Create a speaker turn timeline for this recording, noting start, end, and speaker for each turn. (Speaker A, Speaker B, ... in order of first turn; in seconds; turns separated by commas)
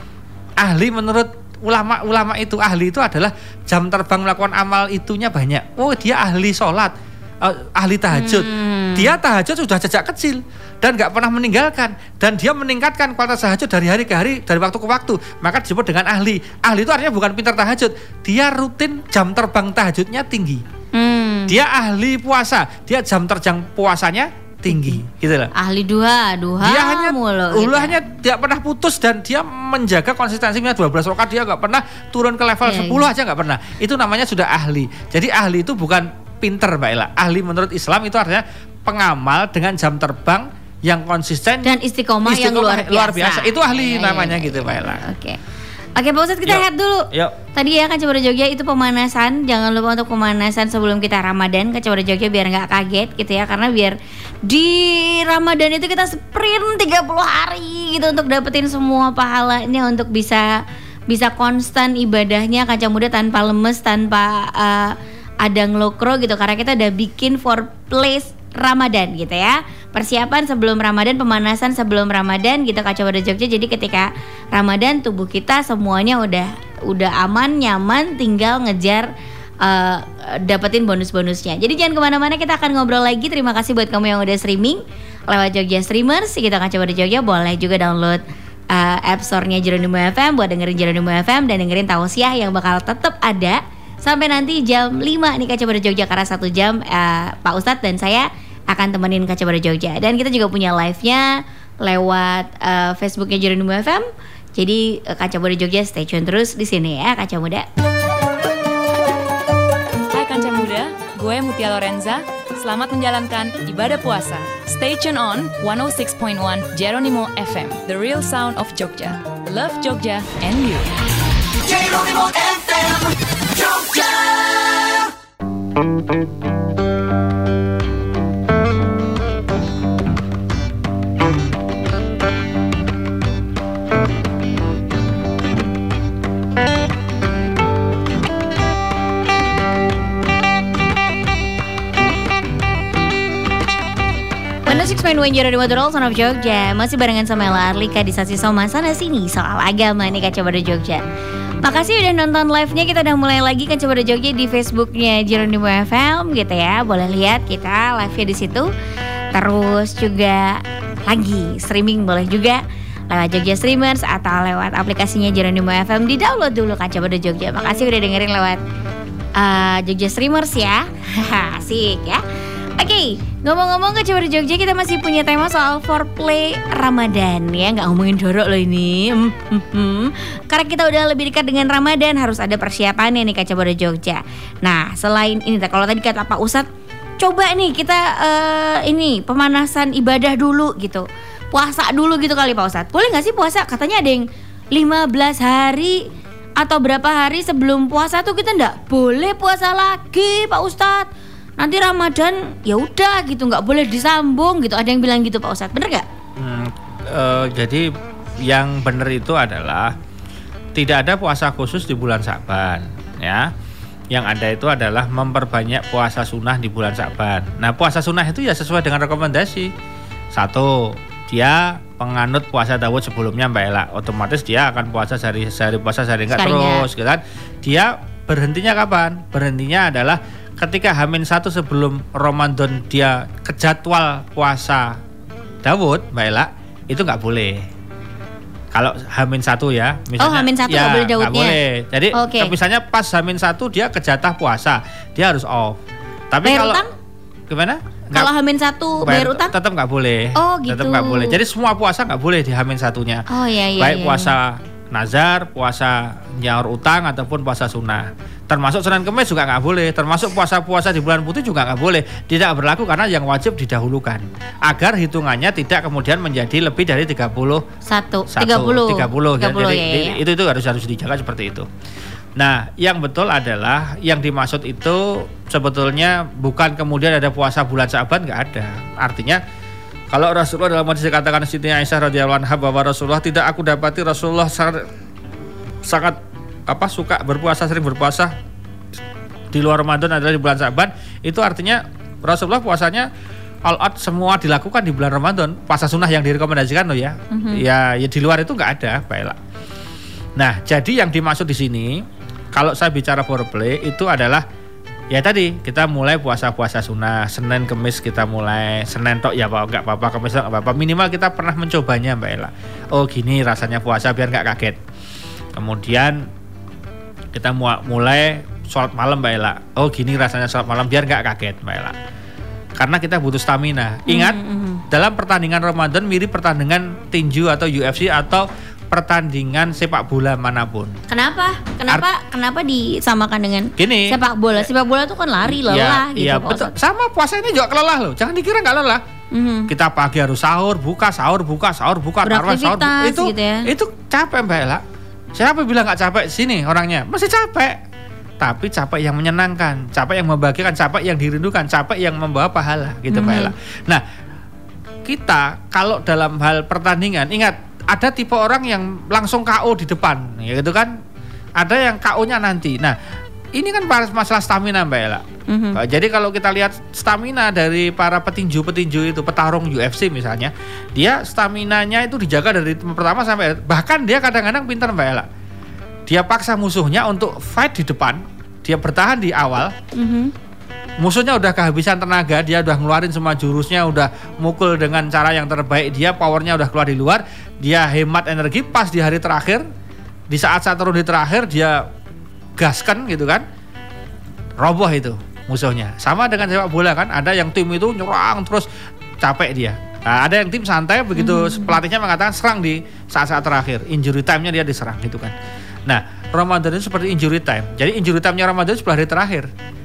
Speaker A: 0.6-20.6, Speaker B: 8.1-9.1, Speaker B: 20.9-21.6, Speaker A: 21.5-25.5, Speaker B: 24.7-25.0, Speaker B: 25.6-28.0, Speaker A: 26.6-45.0, Speaker B: 32.6-33.1, Speaker B: 41.6-45.4, Speaker B: 46.0-79.1, Speaker A: 46.4-47.4, Speaker B: 79.6-107.7, Speaker C: 110.1-121.0, Speaker C: 121.6-125.1, Speaker B: 144.7-151.0, Speaker B: 151.6-158.7, Speaker B: 159.3-168.6, Speaker B: 169.4-172.2, Speaker B: 172.8-186.7, Speaker B: 187.2-196.0, Speaker B: 196.6-201.1, Speaker B: 201.6-206.1, Speaker A: 206.4-207.9, Speaker A: 208.4-209.9, Speaker A: 210.8-213.5, Speaker A: 214.1-219.7, Speaker A: 220.3-235.0, Speaker B: 226.3-226.9, Speaker A: 235.6-237.7, Speaker A: 238.7-245.8, Speaker B: 240.2-241.6, Speaker B: 242.1-242.5, Speaker A: 246.3-246.8, Speaker B: 246.4-246.9, Speaker A: 247.5-248.3, Speaker B: 248.1-249.6, Speaker A: 249.0-253.3, Speaker B: 250.3-251.4, Speaker B: 253.3-254.3, Speaker A: 253.8-267.6, Speaker B: 267.9-270.2, Speaker A: 268.3-271.7, Speaker A: 272.4-279.4, Speaker A: 280.1-284.9, Speaker A: 285.8-288.3, Speaker A: 289.5-293.1, Speaker A: 293.7-299.4, Speaker B: 297.3-297.6, Speaker A: 300.4-302.0, Speaker A: 302.6-304.4, Speaker A: 305.1-314.8, Speaker A: 315.6-316.3, Speaker A: 317.3-322.0, Speaker A: 322.8-331.0, Speaker B: 324.1-324.8, Speaker B: 331.1-336.7, Speaker A: 333.8-334.2, Speaker A: 335.6-339.0, Speaker B: 339.3-339.7, Speaker A: 339.7-344.8, Speaker B: 342.2-343.7, Speaker A: 345.4-347.8, Speaker A: 348.4-354.0, Speaker B: 353.1-353.5, Speaker A: 355.1-360.9, Speaker A: 361.6-363.0, Speaker A: 363.6-365.2, Speaker B: 365.5-365.8, Speaker A: 365.8-375.3, Speaker A: 376.1-379.7, Speaker B: 379.9-380.3, Speaker A: 381.0-389.7, Speaker A: 390.3-391.9, Speaker A: 392.6-393.4, Speaker A: 394.6-398.7, Speaker A: 399.2-405.3, Speaker B: 401.2-401.8, Speaker A: 405.9-409.5